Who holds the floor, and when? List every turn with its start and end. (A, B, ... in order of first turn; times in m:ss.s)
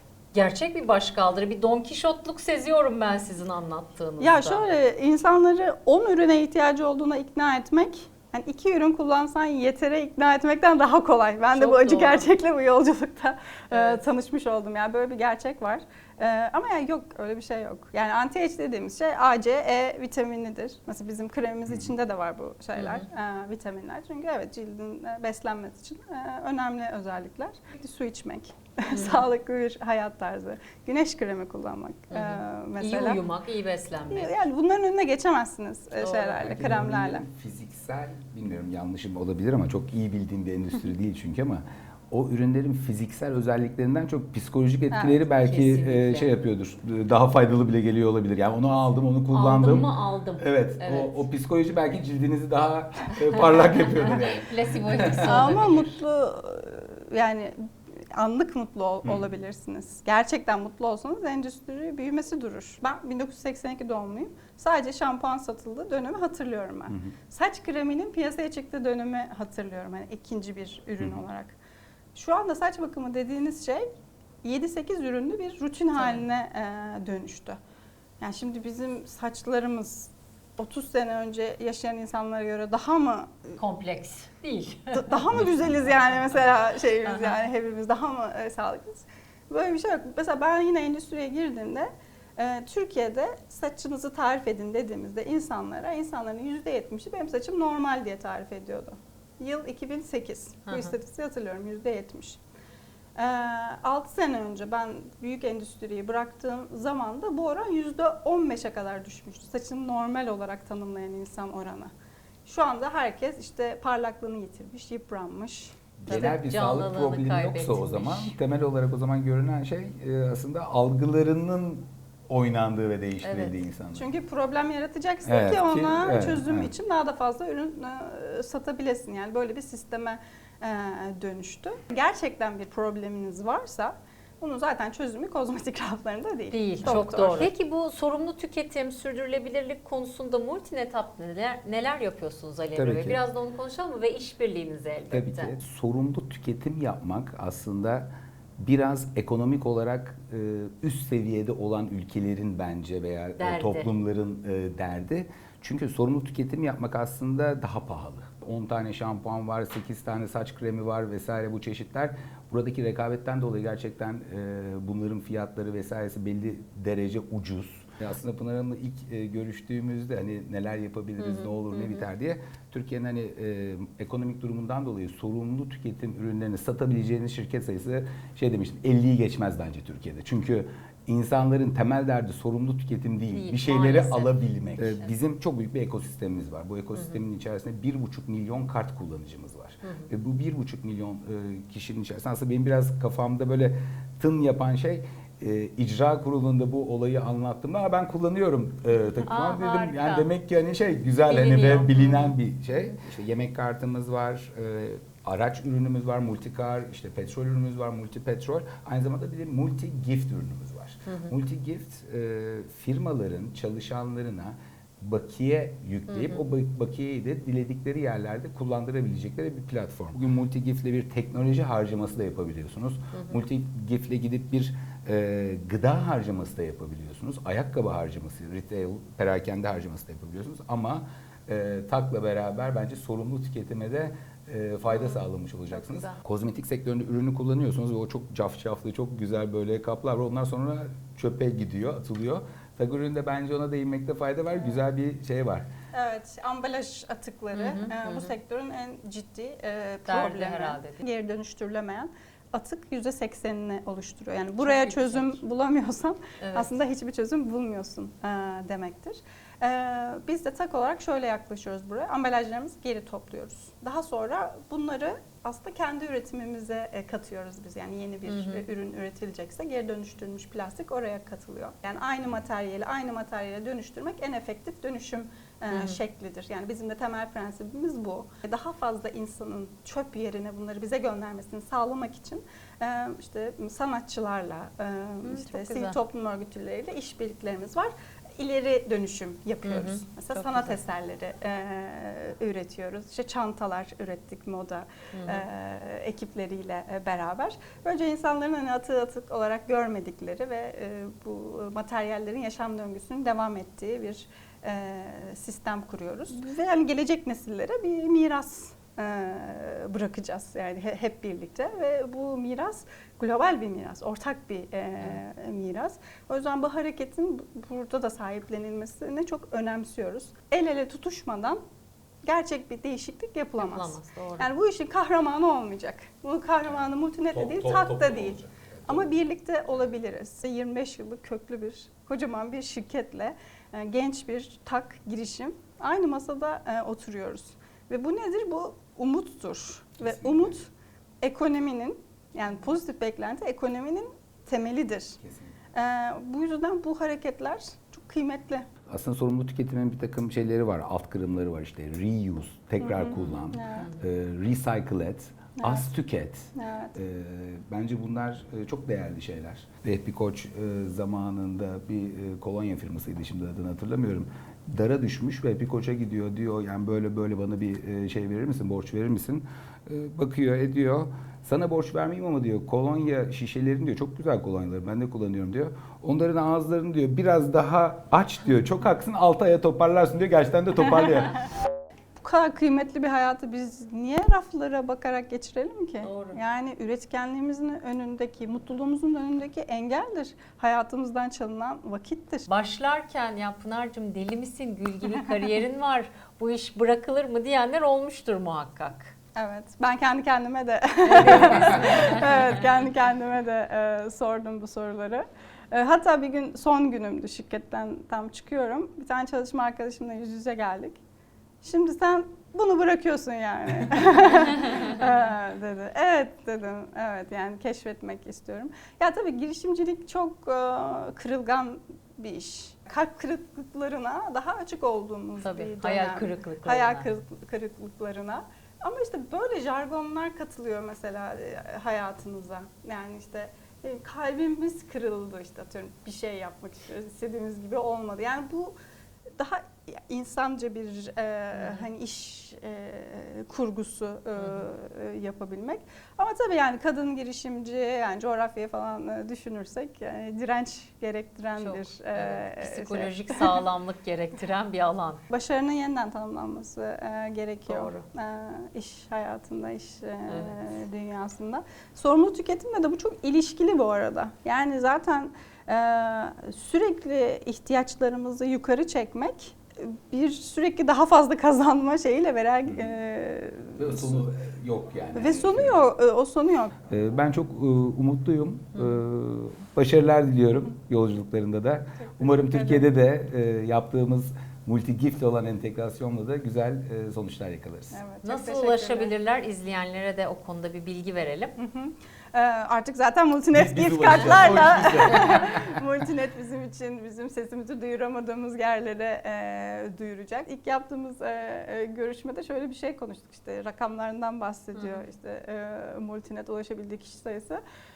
0:00.3-0:04.6 A
0:04.2-0:33.2 B
0:11.5-0:12.3 A
0:13.7-0:14.0 A
0:22.8-0:23.0 A
0:28.9-0:29.2 A
0:32.1-0:34.4 A
0:34.1-0:37.2 B
0:36.1-0:55.6 C
0:44.9-0:45.2 B
0:45.3-0:46.3 A
0:49.3-0:51.2 A
0:54.0-0:56.0 A
0:55.2-0:57.6 B
0:58.1-1:11.5 B
1:06.9-1:07.1 C
1:12.1-1:13.9 B
1:14.4-1:17.6 B
1:16.0-1:16.2 A
1:18.2-1:23.6 B
1:23.6-1:25.2 A
1:24.9-1:42.4 B
1:25.3-1:25.7 C
1:27.0-1:27.4 A
1:40.7-1:40.9 A
1:43.2-1:51.9 B
1:52.4-1:56.3 B
1:56.0-2:04.0 C
1:56.1-1:58.3 A
2:03.2-2:03.6 A
2:03.9-2:17.5 B
2:05.2-2:06.7 C
2:16.5-2:25.5 A
2:22.7-2:23.2 C
2:25.1-4:05.7 C
2:33.4-2:33.9 A
2:51.2-2:52.1 A
3:03.3-3:05.1 A
3:06.9-3:07.2 A
3:09.8-3:10.1 A
3:19.2-3:20.3 A
3:21.3-3:23.0 A
3:31.0-3:31.3 A
3:36.1-3:36.5 A
3:43.1-3:43.4 A
3:54.9-3:56.2 A
4:05.9-5:21.6 B
4:07.5-4:08.3 A
4:10.0-4:11.0 A
4:14.6-4:15.4 A
4:16.4-4:16.7 A
4:28.3-4:28.6 A
4:35.7-4:36.0 A
4:45.2-4:46.0 A
4:49.6-4:50.8 A
4:55.1-4:55.4 A
5:22.2-5:40.7 B
5:23.6-5:24.5 A
5:27.3-5:29.1 C
5:40.0-5:40.5 C
5:41.2-5:45.2 B
5:45.2-5:45.5 C
5:45.7-5:48.6 B
5:48.9-6:21.4 C
5:52.8-5:53.9 B
5:53.2-5:53.9 A
5:55.6-5:55.9 B
5:56.5-5:57.0 B
6:22.2-6:32.5 B
6:26.0-6:26.4 A
6:32.5-6:39.1 A
6:39.4-6:51.0 B
6:41.0-6:42.2 A
6:51.6-7:18.8 B
7:05.4-7:07.1 A
7:19.4-7:33.6 B
7:21.5-7:21.8 A
7:24.4-7:24.6 A
7:31.6-7:35.2 A
7:35.3-7:54.2 B
7:37.7-7:38.0 A
7:40.3-7:40.5 A
7:53.8-7:55.8 C
7:55.1-7:56.7 B
7:56.9-8:08.0 C
8:02.0-8:02.9 B
8:07.9-8:09.1 B
8:08.2-8:11.5 A
8:11.6-8:27.6 B
8:13.5-8:15.8 C
8:24.7-8:25.0 A